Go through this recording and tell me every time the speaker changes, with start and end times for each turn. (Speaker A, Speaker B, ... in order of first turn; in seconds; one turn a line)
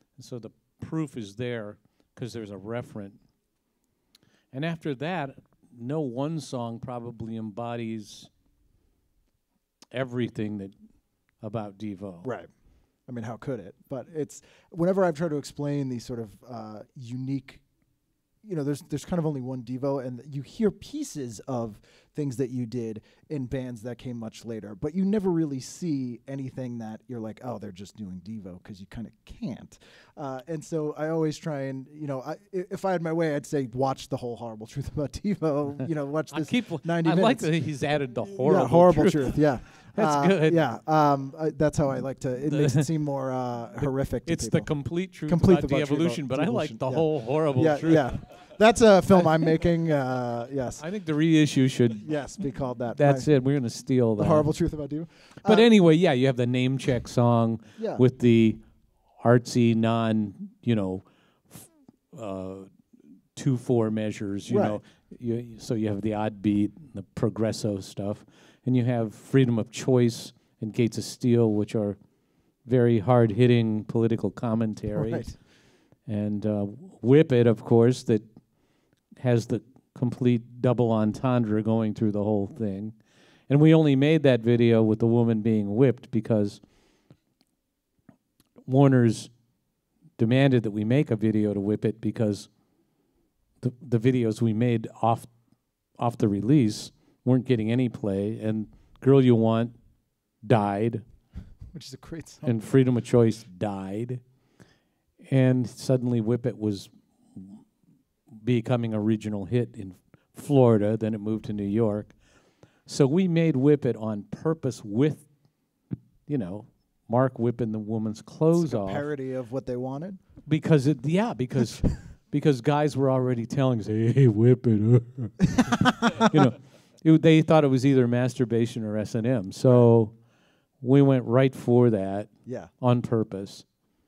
Speaker A: 0.2-3.2
Speaker A: 4.5-8.3
Speaker A: 9.9-10.7
Speaker A: 11.4-12.3
Speaker B: 12.2-12.5
Speaker B: 13.1-17.6
Speaker B: 18.4-37.5
Speaker A: 36.3-40.6
Speaker B: 38.4-44.7
Speaker A: 42.5-42.9
Speaker A: 43.8-48.1
Speaker B: 45.3-50.8
Speaker A: 49.1-49.5
Speaker A: 50.8-52.1
Speaker B: 52.0-53.3
Speaker A: 53.0-54.5
Speaker B: 54.2-55.7
Speaker A: 55.5-58.6
Speaker B: 57.8-58.0
Speaker A: 59.2-62.7
Speaker A: 63.4-72.0
Speaker B: 64.5-64.8
Speaker A: 72.7-75.3
Speaker B: 74.9-75.3
Speaker A: 76.1-78.3
Speaker A: 79.2-83.0
Speaker A: 83.5-86.6
Speaker A: 88.7-89.3
Speaker A: 90.2-92.5
Speaker A: 93.6-95.3
Speaker A: 96.0-99.8
Speaker A: 100.4-101.0
Speaker B: 101.7-102.6
Speaker A: 102.4-104.2
Speaker A: 105.3-107.6
Speaker A: 108.4-112.2
Speaker A: 112.9-115.3
Speaker A: 116.3-119.1
Speaker B: 118.5-120.2
Speaker A: 120.5-130.1
Speaker B: 125.6-126.2
Speaker A: 130.8-133.7
Speaker B: 132.5-132.7